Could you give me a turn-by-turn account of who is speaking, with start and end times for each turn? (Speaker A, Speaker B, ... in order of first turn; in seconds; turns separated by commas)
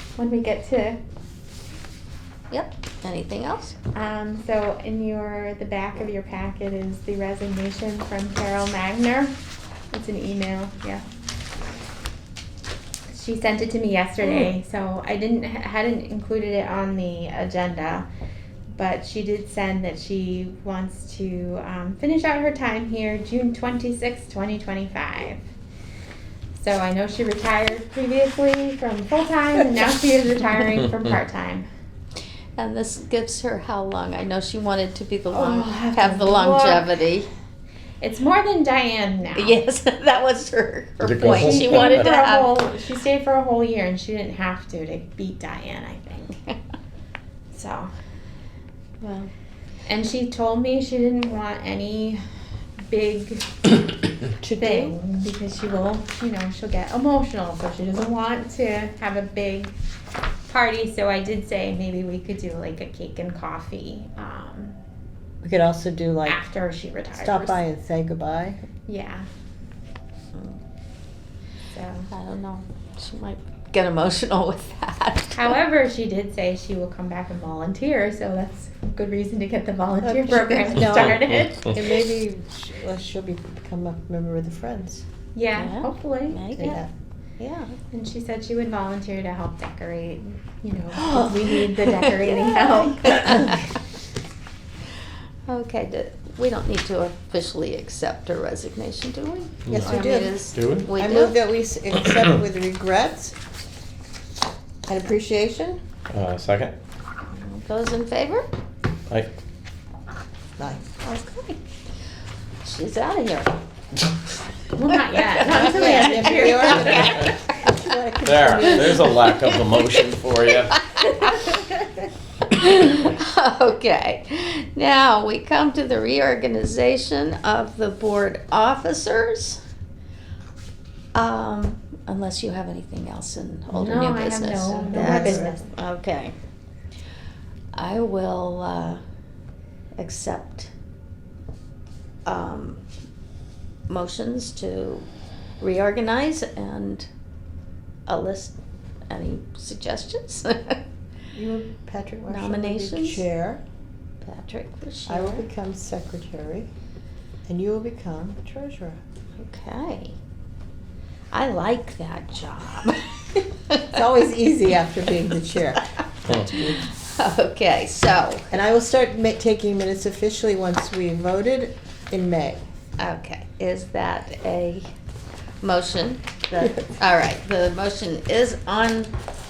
Speaker A: 0.2-1.0, Speaker B: 2.5-3.8, Speaker A: 3.9-9.3, Speaker A: 9.9-11.0, Speaker A: 13.1-18.1, Speaker B: 14.2-14.5, Speaker A: 18.7-25.4, Speaker A: 26.6-31.7, Speaker B: 32.6-37.3, Speaker A: 35.3-36.9, Speaker A: 38.0-39.6, Speaker B: 39.4-42.6, Speaker C: 41.0-42.1, Speaker A: 41.2-46.3, Speaker A: 47.5-47.9, Speaker B: 49.0-49.3, Speaker A: 49.9-52.2, Speaker A: 52.9-53.5, Speaker B: 54.4-54.9, Speaker A: 54.6-59.7, Speaker A: 60.5-64.8, Speaker D: 65.4-66.4, Speaker A: 66.3-67.6, Speaker D: 67.1-68.6, Speaker A: 68.9-69.3, Speaker A: 71.7-72.1, Speaker B: 72.1-75.5, Speaker A: 75.3-81.8, Speaker D: 80.0-85.0, Speaker C: 80.9-81.6, Speaker A: 85.3-86.4, Speaker B: 85.5-86.8, Speaker D: 86.5-86.9, Speaker B: 87.4-87.8, Speaker A: 87.9-93.7, Speaker B: 91.0-93.8, Speaker B: 95.5-101.4, Speaker C: 99.7-100.0, Speaker D: 99.7-100.3, Speaker C: 100.5-100.9, Speaker D: 101.0-103.4, Speaker D: 104.9-105.8, Speaker C: 106.1-106.8, Speaker B: 107.3-108.5, Speaker D: 110.6-110.9, Speaker B: 111.0-111.6, Speaker B: 112.6-113.6, Speaker A: 114.7-117.1, Speaker B: 114.9-117.4, Speaker D: 115.5-119.2, Speaker C: 117.0-117.3, Speaker C: 118.2-120.8, Speaker B: 118.5-119.9, Speaker B: 120.7-121.5, Speaker A: 121.3-121.6, Speaker B: 122.5-129.6, Speaker B: 131.2-136.3, Speaker A: 133.7-135.7, Speaker D: 134.9-135.6, Speaker B: 137.7-139.0, Speaker B: 140.0-140.7, Speaker B: 142.3-142.8, Speaker B: 143.9-145.1, Speaker B: 145.6-147.1, Speaker B: 148.1-148.6, Speaker B: 149.1-150.8, Speaker D: 151.3-153.6, Speaker B: 152.3-153.3, Speaker B: 154.2-155.4, Speaker D: 155.1-156.7, Speaker D: 157.5-159.0, Speaker B: 159.4-160.2, Speaker B: 161.3-163.9, Speaker D: 163.9-166.8, Speaker B: 166.5-168.5, Speaker D: 168.5-172.6, Speaker B: 173.0-174.9, Speaker B: 175.6-179.1